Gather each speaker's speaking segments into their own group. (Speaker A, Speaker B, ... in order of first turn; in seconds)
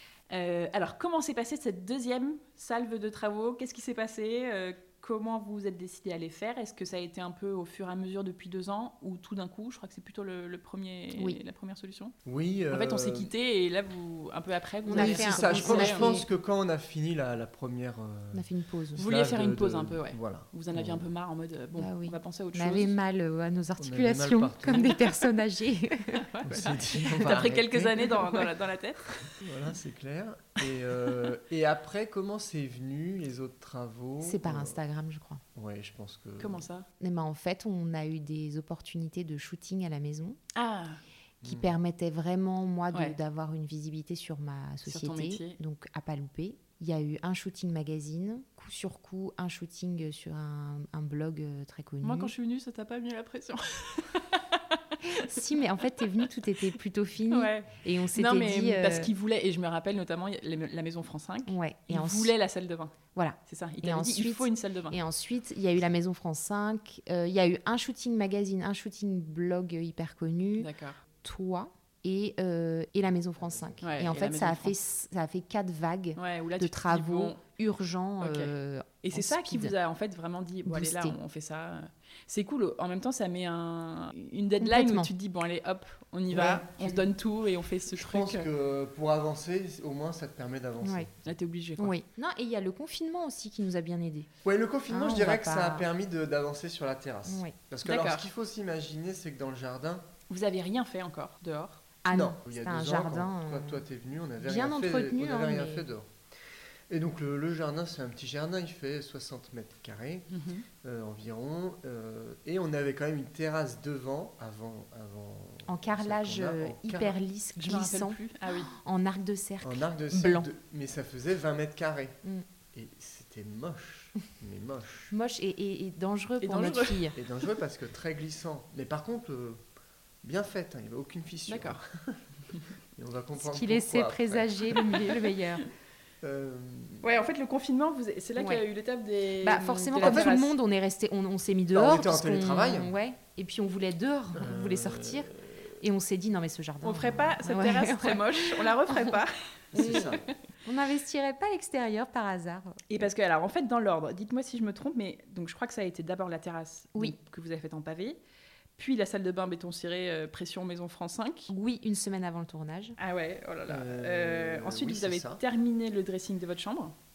Speaker A: 0.3-12.1, 12.7-16.2, 19.0-22.9, 26.1-29.4, 36.4-36.9, 40.5-41.0, 42.9-43.2, 44.9-45.6, 52.0-55.4, 57.3-63.0, 63.5-65.0, 70.6-71.0, 73.8-74.8, 76.2-77.4, 78.2-88.5, 91.2-92.0, 97.8-98.3, 100.3-101.8, 110.3-110.7, 117.6-118.7, 126.4-127.2, 131.5-131.8, 137.0-140.5, 146.8-150.4, 152.9-158.2, 158.8-161.5, 163.0-166.9
Speaker B: 12.2-13.3, 14.9-21.0, 23.8-25.0, 26.4-27.8, 29.2-34.8, 35.5-36.7, 41.4-41.8, 73.4-74.1, 86.3-86.9, 87.9-91.2, 94.4-100.0, 102.1-106.1, 106.9-110.3, 110.8-117.2, 119.6-122.2, 122.7-125.1, 127.2-129.6, 130.2-132.2, 133.0-135.2, 136.2-137.1, 140.0-140.3, 141.7-142.9, 144.4-145.8, 149.7-150.2, 163.7-165.4
Speaker C: 14.9-16.3, 18.3-19.1, 21.8-26.3, 27.1-28.5, 34.2-35.4, 37.0-40.4, 41.4-52.3, 55.0-59.1, 61.5-62.4, 63.1-70.7, 71.2-79.7, 80.7-81.2, 84.6-85.1, 90.8-91.1, 91.8-94.3, 94.9-95.9, 97.3-97.6, 102.0-103.8, 104.4-105.9, 115.7-120.5, 125.1-127.2, 133.4-135.7, 138.4-138.6, 139.4-149.2, 149.8-152.9, 161.5-163.0